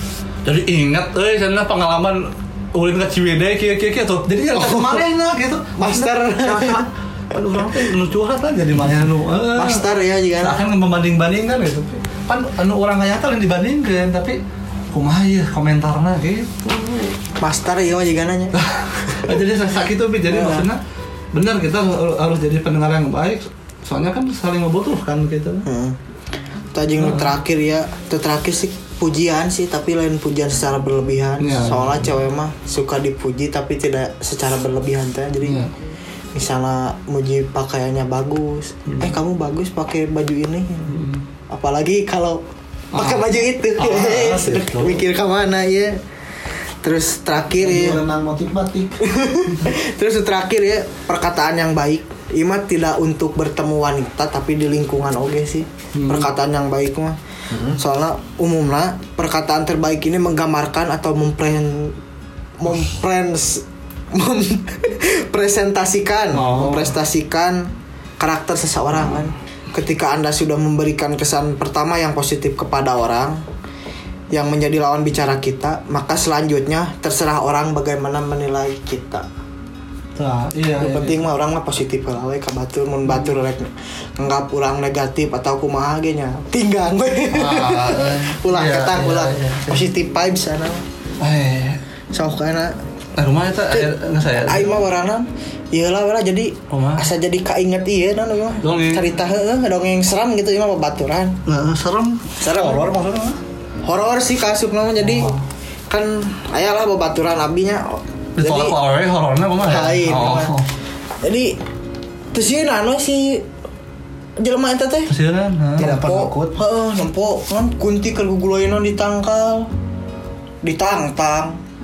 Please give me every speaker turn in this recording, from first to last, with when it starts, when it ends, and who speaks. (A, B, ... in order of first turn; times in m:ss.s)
0:00.4-0:14.4 A
0:04.5-0:05.1 B
0:05.8-0:06.8 B
0:09.6-0:10.6 B
0:14.9-0:17.2 A
0:17.4-0:18.6 B
0:18.6-0:20.8 A
0:20.3-0:20.7 B
0:21.3-0:25.6 A
0:25.6-0:26.0 B
0:26.7-0:35.6 B
0:27.0-0:27.3 A
0:31.4-0:32.1 A
0:35.4-0:35.7 A
0:36.3-0:42.4 B
0:38.9-0:39.1 A
0:40.9-0:41.2 A
0:42.9-0:45.0 A
0:42.9-0:46.0 B
0:46.8-0:48.0 B
0:47.6-0:49.0 C
0:49.0-0:57.2 B
0:55.9-0:56.3 A
0:57.5-0:57.8 C
0:57.8-1:02.0 B
1:02.6-1:13.4 B
1:06.3-1:06.9 A
1:14.3-1:19.2 B
1:20.2-1:21.2 A
1:20.8-1:30.8 B
1:27.3-1:29.9 A
1:31.2-1:31.8 A
1:32.1-1:32.7 B
1:33.2-1:34.8 A
1:33.7-1:41.4 B
1:36.7-1:37.0 A
1:38.6-1:39.0 A
1:41.4-1:43.4 A
1:42.4-1:43.0 B
1:43.8-1:45.3 B
1:45.0-1:45.4 A
1:45.9-1:48.8 B
1:48.4-1:50.7 A
1:49.6-1:50.5 B
1:51.2-1:51.6 B
1:52.3-1:53.4 B
1:54.4-1:55.1 B
1:55.1-1:55.9 A
1:55.8-1:56.6 C
1:55.8-1:59.7 B
2:00.6-2:01.6 B